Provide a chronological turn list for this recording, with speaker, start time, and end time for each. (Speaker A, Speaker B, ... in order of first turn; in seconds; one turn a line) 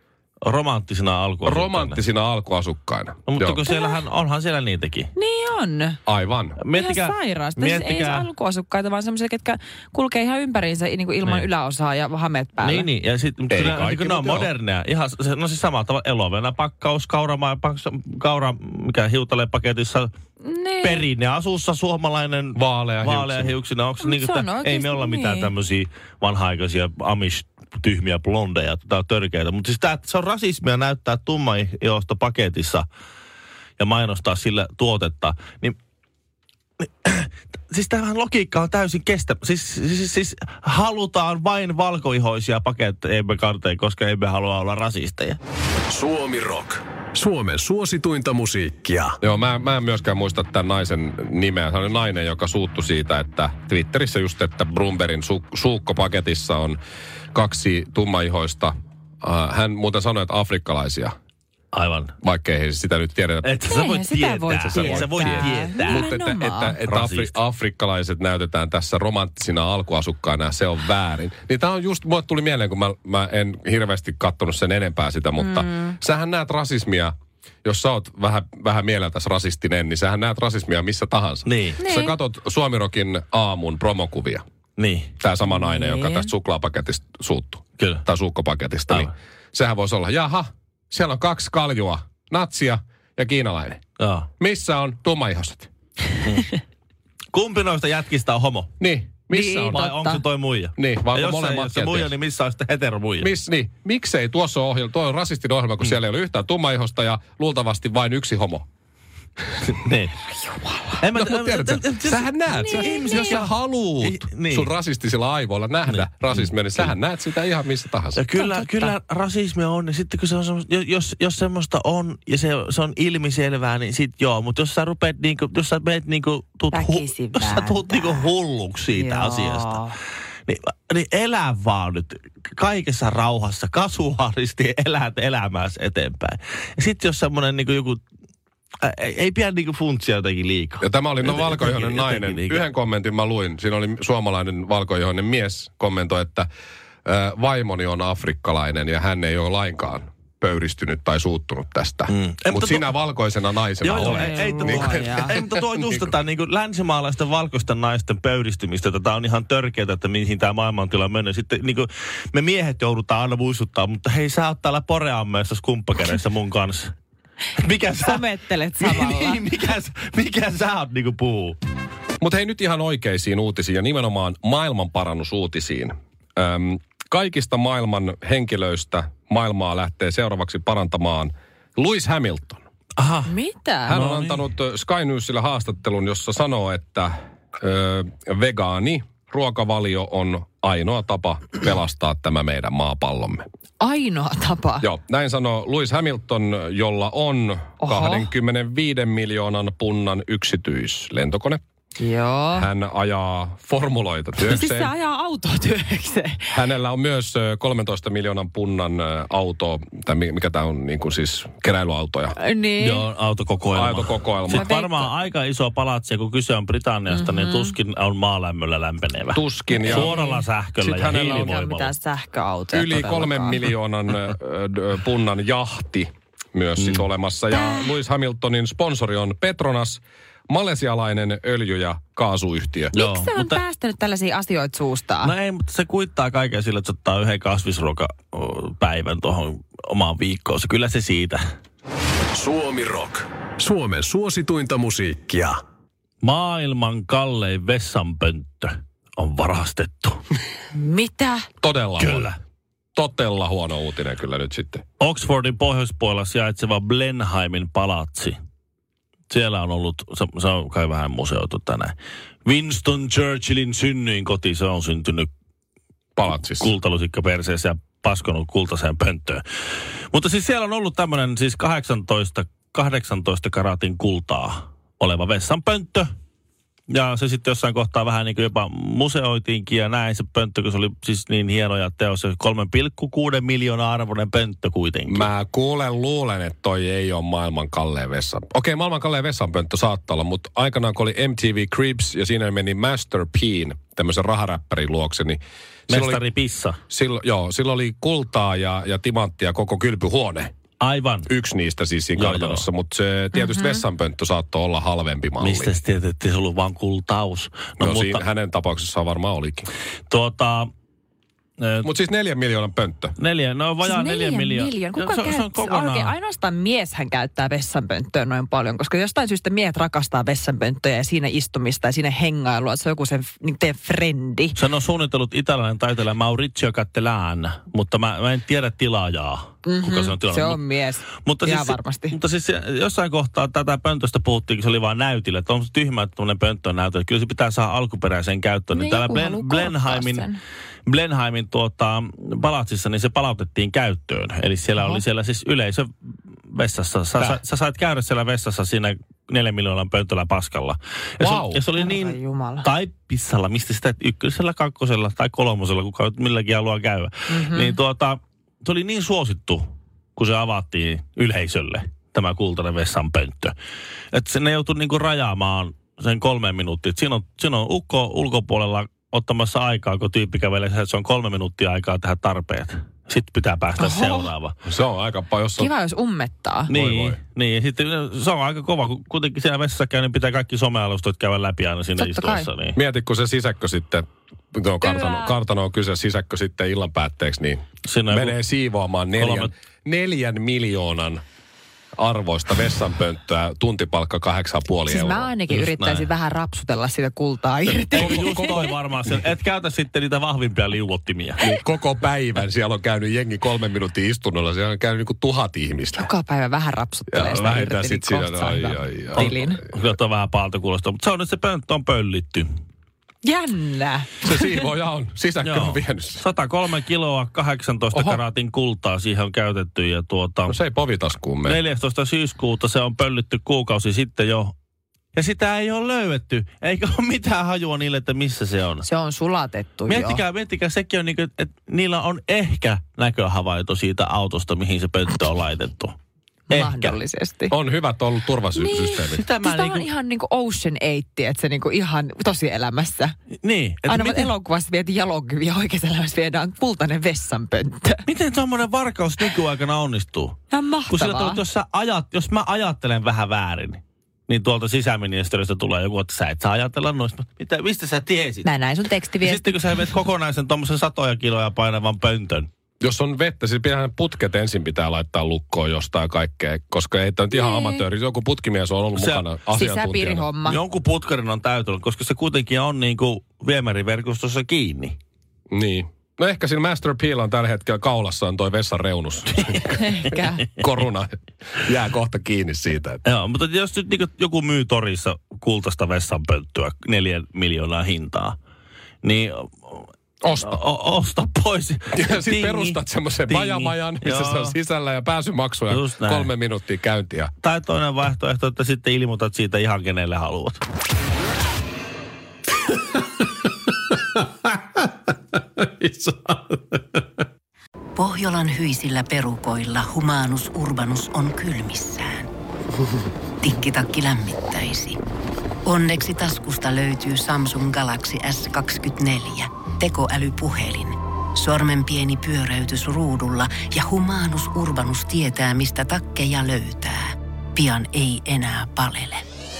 Speaker A: 0.4-2.0
Speaker B: 1.4-3.7
Speaker A: 3.2-5.1
Speaker C: 3.7-4.0
Speaker C: 5.2-6.0
Speaker B: 6.0-6.6
Speaker A: 6.6-8.3
Speaker C: 6.7-12.9
Speaker A: 12.6-20.1
Speaker B: 13.5-14.5
Speaker C: 20.4-21.1
Speaker A: 20.8-32.9
Speaker B: 22.5-23.5
Speaker C: 24.0-25.5
Speaker A: 33.8-35.8
Speaker A: 36.8-45.4
Speaker D: 45.9-49.2
Speaker B: 49.2-56.8
Speaker B: 57.3-61.1
Speaker A: 61.7-62.1
Speaker B: 62.2-63.5
Speaker A: 63.4-66.1
Speaker C: 63.7-66.8
Speaker B: 64.7-77.1
Speaker A: 66.8-67.3
Speaker C: 75.4-75.9
Speaker B: 77.6-84.4
Speaker A: 81.4-81.8
Speaker C: 81.8-82.2
Speaker A: 84.8-85.1
Speaker B: 85.2-93.8
Speaker C: 85.5-86.3
Speaker A: 87.8-88.0
Speaker A: 94.0-94.3
Speaker B: 94.4-95.7
Speaker A: 96.2-96.6
Speaker A: 97.3-98.7
Speaker B: 98.8-99.8
Speaker C: 99.3-100.2
Speaker A: 99.7-103.3
Speaker B: 100.8-102.1
Speaker B: 103.2-108.6
Speaker A: 109.6-110.2
Speaker C: 110.4-111.0
Speaker A: 111.0-113.5
Speaker B: 111.1-118.2
Speaker C: 112.5-113.4
Speaker A: 114.0-114.7
Speaker A: 115.8-116.9
Speaker A: 118.1-129.8
Speaker C: 118.4-118.9
Speaker C: 126.7-128.3
Speaker C: 128.9-129.9
Speaker A: 130.5-138.0
Speaker A: 138.8-142.7
Speaker B: 140.8-146.5
Speaker B: 147.0-155.3
Speaker A: 152.1-152.9
Speaker A: 153.8-166.9
Speaker C: 154.0-155.3
Speaker A: 167.6-171.6
Speaker C: 168.0-169.4
Speaker B: 172.2-182.6
Speaker A: 183.0-183.3
Speaker C: 183.2-184.0
Speaker B: 183.8-193.4
Speaker A: 183.9-184.4
Speaker C: 193.8-194.9
Speaker B: 194.8-201.6
Speaker C: 197.8-198.3
Speaker C: 202.0-202.7
Speaker B: 202.5-204.9
Speaker C: 204.4-206.5
Speaker B: 206.5-212.3
Speaker C: 212.3-213.0
Speaker A: 212.8-221.9
Speaker B: 213.7-214.7
Speaker C: 214.5-215.1
Speaker C: 217.1-217.7
Speaker B: 219.3-220.1
Speaker C: 219.7-220.4
Speaker B: 220.8-221.5
Speaker C: 221.1-223.7
Speaker B: 222.7-232.9
Speaker A: 226.8-227.1
Speaker C: 227.5-227.9
Speaker C: 232.9-235.3
Speaker A: 232.9-233.6
Speaker A: 235.2-241.4
Speaker D: 242.3-245.6
Speaker A: 246.2-250.2
Speaker C: 250.7-251.5
Speaker B: 251.6-252.3
Speaker A: 252.0-252.3
Speaker B: 252.9-254.8
Speaker A: 255.0-258.3
Speaker A: 259.3-261.9
Speaker A: 262.4-265.3
Speaker B: 266.1-266.7
Speaker A: 266.3-269.4
Speaker A: 270.1-276.1
Speaker A: 276.9-285.3
Speaker B: 285.1-296.2
Speaker A: 295.9-296.8
Speaker B: 296.9-300.5
Speaker A: 300.8-301.3
Speaker B: 301.3-305.7
Speaker A: 302.2-302.6
Speaker C: 303.3-303.8
Speaker A: 305.4-308.2
Speaker B: 307.8-309.7
Speaker A: 310.1-310.7
Speaker A: 311.6-311.9
Speaker B: 311.8-313.1
Speaker A: 313.2-316.1
Speaker C: 313.8-324.6
Speaker A: 324.5-330.6
Speaker C: 329.6-332.1
Speaker A: 331.2-340.2
Speaker C: 338.7-340.4
Speaker A: 340.9-345.9
Speaker C: 344.8-345.0
Speaker A: 346.5-363.5
Speaker B: 351.2-351.6
Speaker C: 351.7-352.7
Speaker C: 357.3-357.8
Speaker A: 364.1-374.5
Speaker C: 373.8-374.3
Speaker B: 374.6-375.7
Speaker C: 375.6-376.7
Speaker A: 376.7-382.8
Speaker B: 376.7-377.2
Speaker C: 382.0-382.5
Speaker B: 382.7-391.2
Speaker C: 384.8-385.4
Speaker A: 387.8-388.4
Speaker A: 389.2-389.5
Speaker B: 392.0-395.3
Speaker C: 394.9-398.7
Speaker A: 395.5-396.1
Speaker B: 397.6-398.7
Speaker A: 397.9-401.4
Speaker B: 401.4-406.1
Speaker C: 405.9-409.6
Speaker B: 407.1-409.5
Speaker A: 409.1-412.4
Speaker C: 413.2-414.5
Speaker B: 414.2-416.2
Speaker A: 415.4-420.6
Speaker B: 417.9-418.2
Speaker B: 420.5-421.6
Speaker A: 421.4-424.5
Speaker A: 425.1-428.8
Speaker C: 428.8-430.2
Speaker A: 429.9-435.9
Speaker A: 436.5-437.0
Speaker C: 436.5-437.5
Speaker B: 437.5-439.2
Speaker C: 438.5-443.1
Speaker A: 439.1-439.9
Speaker A: 443.4-444.3
Speaker C: 443.9-448.0
Speaker A: 448.1-450.4
Speaker C: 450.5-451.4
Speaker A: 450.9-458.5
Speaker C: 458.4-459.9
Speaker A: 459.2-462.5
Speaker B: 462.8-470.3
Speaker C: 467.3-467.8
Speaker A: 468.9-469.2
Speaker C: 469.5-470.6
Speaker A: 470.4-475.0
Speaker B: 475.5-483.0
Speaker C: 479.7-480.4
Speaker A: 483.0-488.4
Speaker A: 489.0-489.9
Speaker B: 490.2-490.6
Speaker A: 490.4-494.6
Speaker B: 491.9-497.3
Speaker A: 495.7-496.3
Speaker A: 497.4-500.6
Speaker D: 505.6-506.6
Speaker E: 507.9-512.3
Speaker E: 513.4-515.0
Speaker E: 515.6-529.2